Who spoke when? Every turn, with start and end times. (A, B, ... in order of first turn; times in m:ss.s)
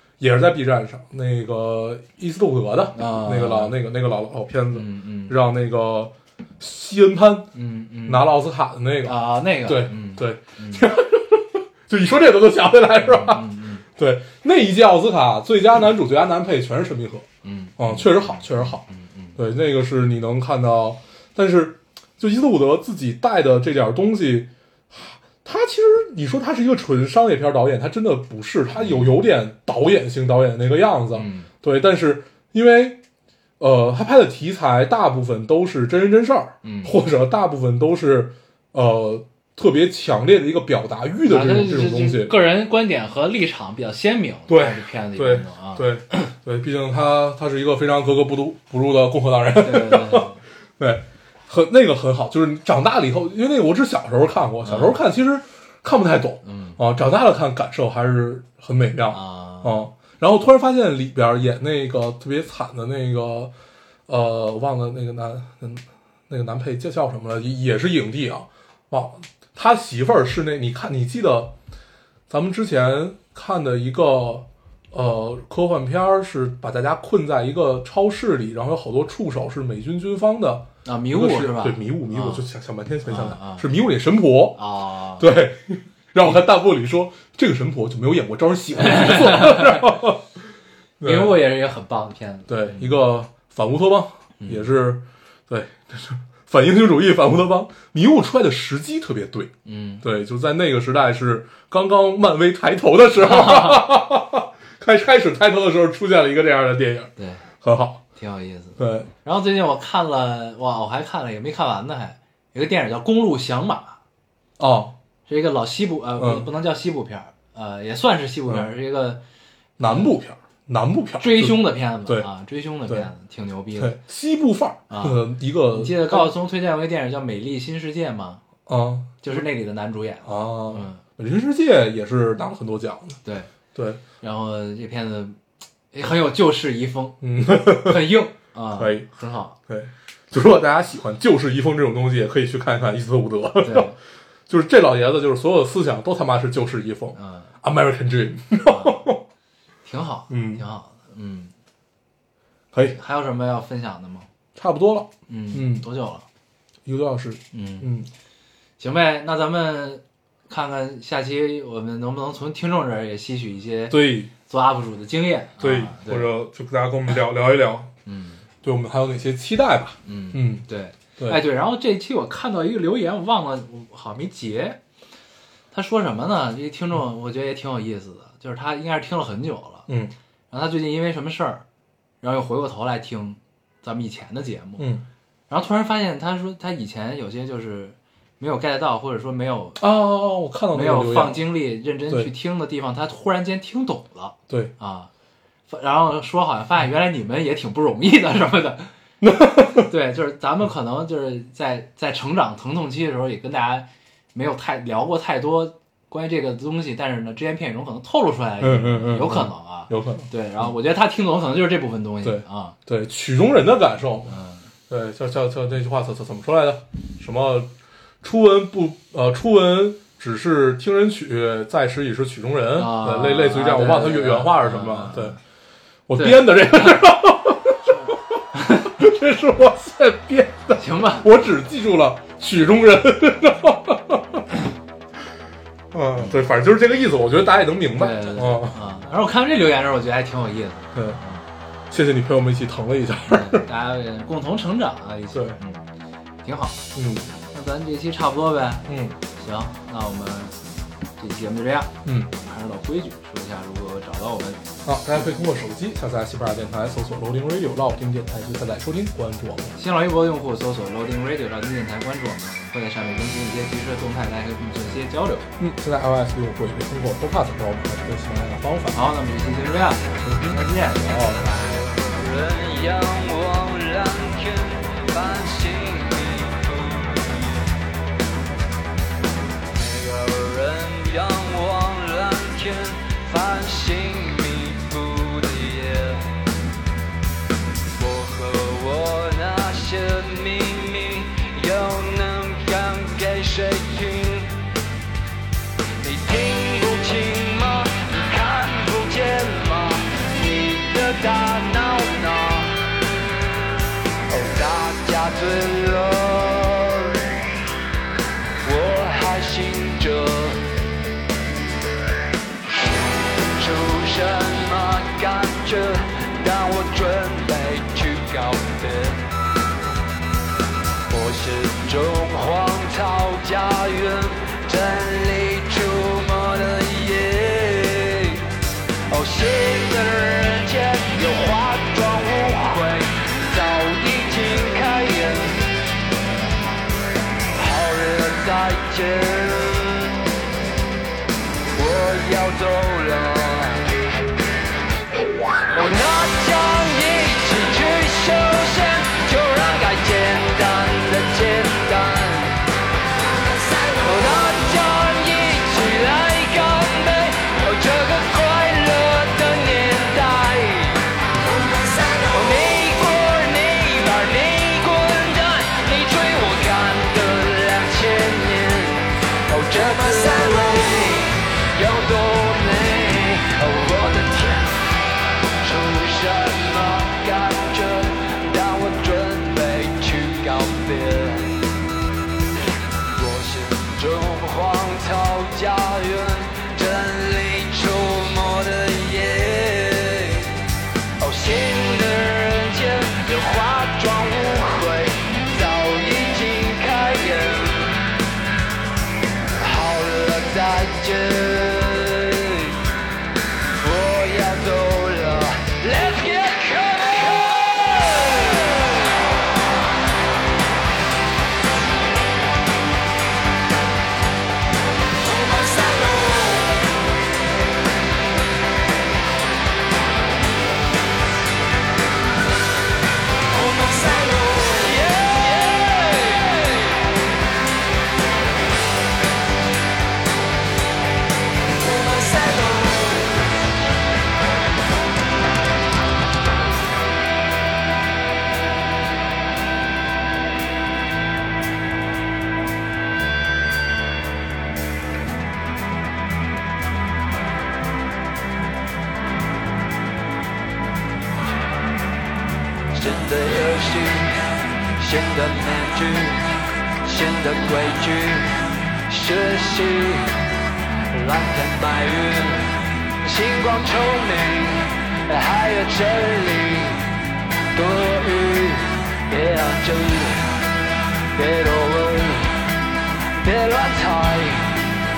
0:00.2-0:07.5 A
0:02.9-0:03.8 B
0:04.7-0:05.4 B
0:07.5-0:08.3 B
0:08.0-0:17.3 A
0:09.0-0:10.8 B
0:13.0-0:13.8 B
0:17.4-0:19.4 B
0:17.8-0:18.8 A
0:19.4-0:33.0 A
0:28.7-0:29.2 B
0:31.1-0:31.5 B
0:33.6-0:42.4 A
0:36.6-0:36.9 B
0:41.2-0:46.3 B
0:44.5-1:03.5 A
0:49.6-0:50.4 B
0:54.6-0:55.0 B
0:56.4-0:56.8 B
0:59.1-0:59.8 B
1:04.1-1:11.5 A
1:12.3-1:24.6 A
1:20.8-1:22.4 B
1:23.0-1:23.7 B
1:24.6-1:25.3 B
1:25.2-1:30.2 A
1:28.8-1:29.8 B
1:31.0-1:31.4 A
1:31.0-1:33.0 B
1:32.5-1:48.0 A
1:34.4-1:34.7 B
1:39.6-1:40.0 B
1:43.2-1:43.8 B
1:47.2-1:47.5 B
1:48.1-1:54.0 B
1:48.8-1:49.1 A
1:54.6-1:54.9 A
1:55.3-1:59.2 B
1:56.2-1:56.4 A
1:59.8-2:02.3 A
1:59.8-2:00.1 B
2:01.2-2:04.0 B
2:03.8-2:06.3 A
2:04.9-2:08.4 B
2:08.7-2:09.4 A
2:09.2-2:11.0 B
2:10.2-2:13.2 A
2:13.2-2:13.5 B
2:13.7-2:14.0 A
2:14.2-2:15.4 B
2:15.9-2:19.6 B
2:17.2-2:18.1 A
2:18.8-2:19.1 A
2:19.7-2:23.9 A
2:23.6-2:24.0 B
2:24.5-2:29.2 A
2:27.1-2:27.5 B
2:28.5-2:29.1 B
2:29.8-2:31.5 B
2:30.3-2:30.6 A
2:32.9-2:34.3 B
2:34.6-2:35.8 A
2:35.3-2:36.2 B
2:36.8-2:38.1 A
2:37.5-2:37.9 B
2:38.8-2:46.3 B
2:43.9-2:44.3 A
2:45.6-2:47.9 A
2:48.0-2:48.4 B
2:48.6-2:50.6 A
2:50.0-2:54.8 B
2:55.7-2:59.9 B
2:59.9-3:00.1 A
3:00.5-3:01.6 B
3:02.2-3:04.9 B
3:04.8-3:05.0 A
3:05.5-3:09.8 B
3:09.8-3:11.4 A
3:10.7-3:15.1 B
3:15.7-3:18.9 B
3:19.2-3:19.9 A
3:19.7-3:32.8 B
3:28.6-3:30.3 A
3:32.2-3:34.4 A
3:34.3-3:34.6 B
3:34.9-3:37.7 A
3:38.2-3:45.4 A
3:42.8-3:45.4 B
3:46.1-3:48.4 A
3:46.2-3:47.0 B
3:47.9-3:49.0 B
3:48.9-3:54.4 A
3:50.8-3:51.3 B
3:55.9-3:58.8 A
3:58.0-4:01.4 B
4:00.9-4:01.2 A
4:01.9-4:03.6 A
4:03.3-4:05.8 B
4:05.3-4:05.6 A
4:06.4-4:06.9 B
4:06.9-4:07.3 A
4:07.4-4:10.6 B
4:08.9-4:09.2 A
4:11.2-4:14.6 B
4:12.0-4:12.3 A
4:14.8-4:19.7 A
4:19.7-4:25.5 B
4:25.6-4:29.0 A
4:28.9-4:31.9 B
4:30.1-4:31.5 A
4:31.6-4:37.7 C
4:39.7-4:46.3 C
4:47.9-4:54.5 C
4:56.0-5:02.8 C
5:04.3-5:07.3 C
5:08.6-5:10.7 C
5:12.8-5:19.3 C
5:21.1-5:28.5 C
5:29.1-5:35.6 C
5:37.5-5:40.2 C
5:41.7-5:43.9 C
5:45.7-5:52.6 C
5:53.9-6:01.1 C
6:02.2-6:14.8 C
6:15.6-6:21.6 C
6:23.1-6:30.5 C
6:31.2-6:38.0 C
6:39.5-6:42.8 C
6:43.8-6:49.1 C
6:55.2-6:56.8 C
7:03.5-7:07.1 C
7:11.8-7:13.4 C
7:32.9-7:34.4 C
7:35.0-7:36.4 C
7:37.0-7:38.5 C
7:39.1-7:40.3 C
7:41.1-7:47.0 C
7:47.7-7:50.5 C
7:51.3-7:52.6 C
7:53.4-7:54.8 C